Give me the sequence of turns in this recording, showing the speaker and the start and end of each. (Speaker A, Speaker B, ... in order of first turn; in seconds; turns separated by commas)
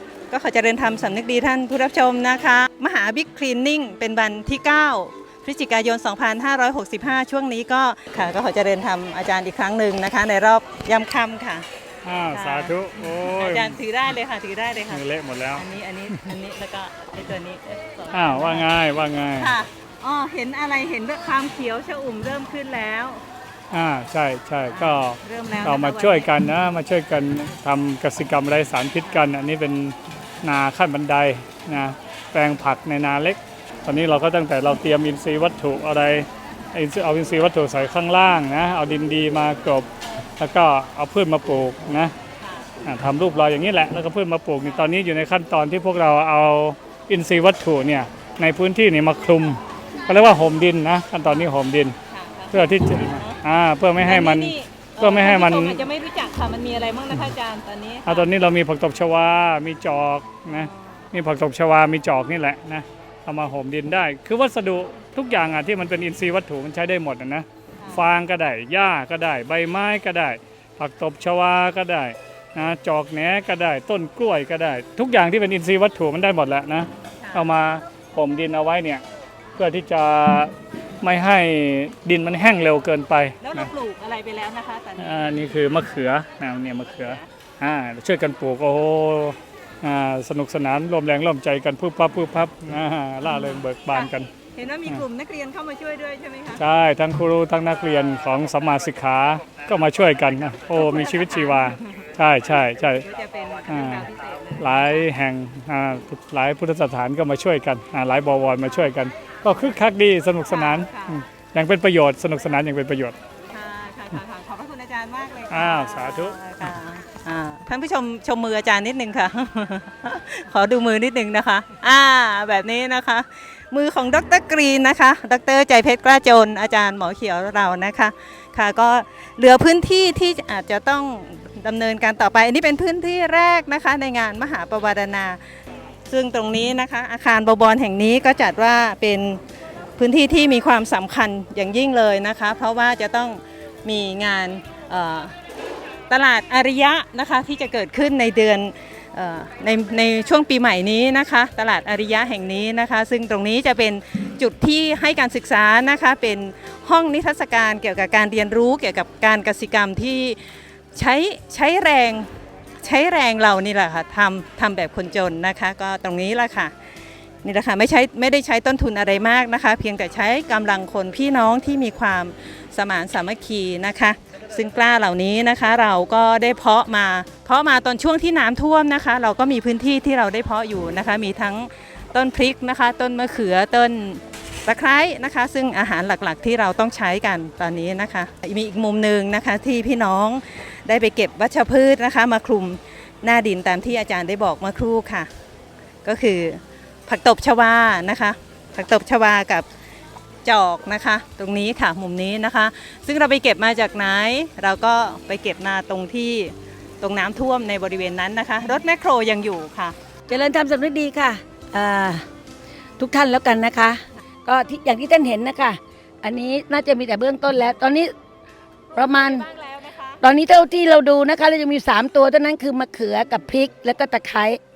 Speaker A: 0.3-11.7, Speaker B: 12.0-13.8, Speaker A: 12.3-18.7, Speaker B: 14.9-15.6, Speaker B: 18.1-19.6, Speaker A: 19.4-23.2, Speaker B: 23.7-39.9, Speaker A: 24.7-26.3, Speaker B: 40.4-42.1, Speaker A: 42.4-42.7, Speaker B: 42.9-52.0, Speaker A: 52.1-53.4, Speaker B: 52.5-55.9, Speaker A: 54.0-58.3, Speaker B: 58.0-79.0, Speaker B: 79.6-83.7, Speaker A: 83.4-85.4, Speaker B: 85.0-94.3, Speaker A: 93.2-96.6, Speaker B: 96.6-103.0, Speaker A: 100.8-101.8, Speaker A: 103.0-104.9, Speaker B: 103.7-113.2, Speaker A: 110.5-111.2, Speaker A: 113.5-135.4, Speaker B: 115.5-116.4, Speaker A: 136.1-139.4, Speaker A: 140.0-145.3, Speaker A: 146.1-160.4, Speaker A: 160.9-162.3, Speaker A: 162.8-166.7, Speaker A: 167.4-195.3, Speaker A: 196.0-199.7, Speaker A: 200.4-210.0, Speaker C: 210.3-212.2, Speaker C: 213.0-218.1, Speaker C: 218.9-219.5, Speaker A: 219.2-220.2, Speaker C: 220.2-224.6